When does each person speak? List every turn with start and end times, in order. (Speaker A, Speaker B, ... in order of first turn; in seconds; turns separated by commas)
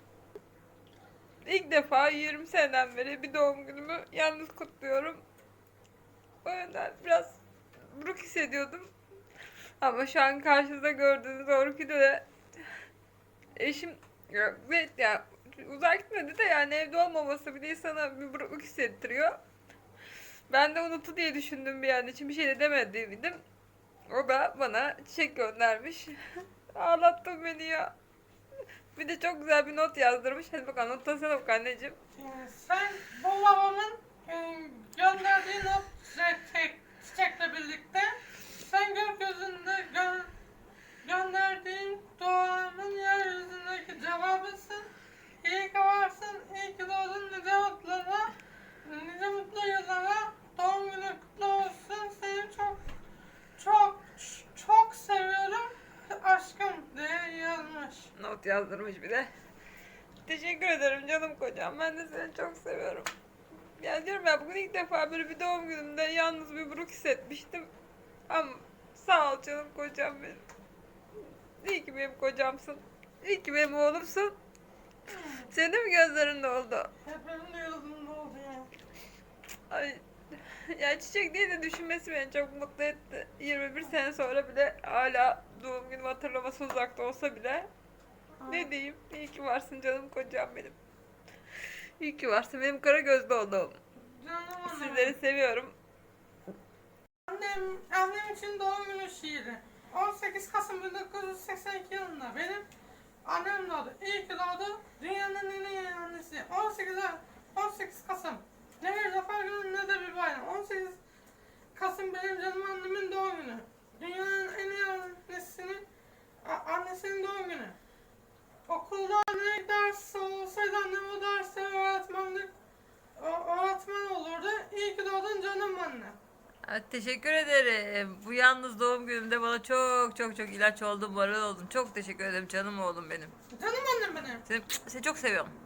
Speaker A: 1.5-5.2, Speaker A: 6.4-7.4, Speaker A: 7.9-8.9, Speaker A: 9.8-12.2, Speaker A: 13.6-19.4, Speaker A: 20.5-23.4, Speaker A: 24.1-27.9, Speaker A: 28.9-32.0, Speaker B: 32.2-40.3, Speaker B: 41.0-44.9, Speaker B: 45.4-48.3, Speaker B: 48.8-52.8, Speaker B: 53.6-58.1, Speaker A: 58.2-59.3, Speaker A: 60.3-63.1, Speaker A: 63.8-67.7, Speaker A: 68.3-70.4, Speaker A: 71.6-74.3, Speaker B: 75.1-75.5, Speaker A: 75.5-76.9, Speaker B: 77.0-78.7, Speaker A: 79.7-87.7, Speaker B: 88.4-88.7, Speaker A: 88.5-90.8, Speaker A: 92.0-93.8, Speaker B: 94.0-95.2, Speaker A: 94.6-95.8, Speaker B: 97.3-102.7, Speaker B: 103.2-111.0, Speaker B: 111.7-115.9, Speaker B: 116.4-117.8, Speaker B: 118.7-122.5, Speaker B: 123.2-126.2, Speaker A: 126.7-133.3, Speaker B: 133.5-134.4, Speaker A: 134.5-135.5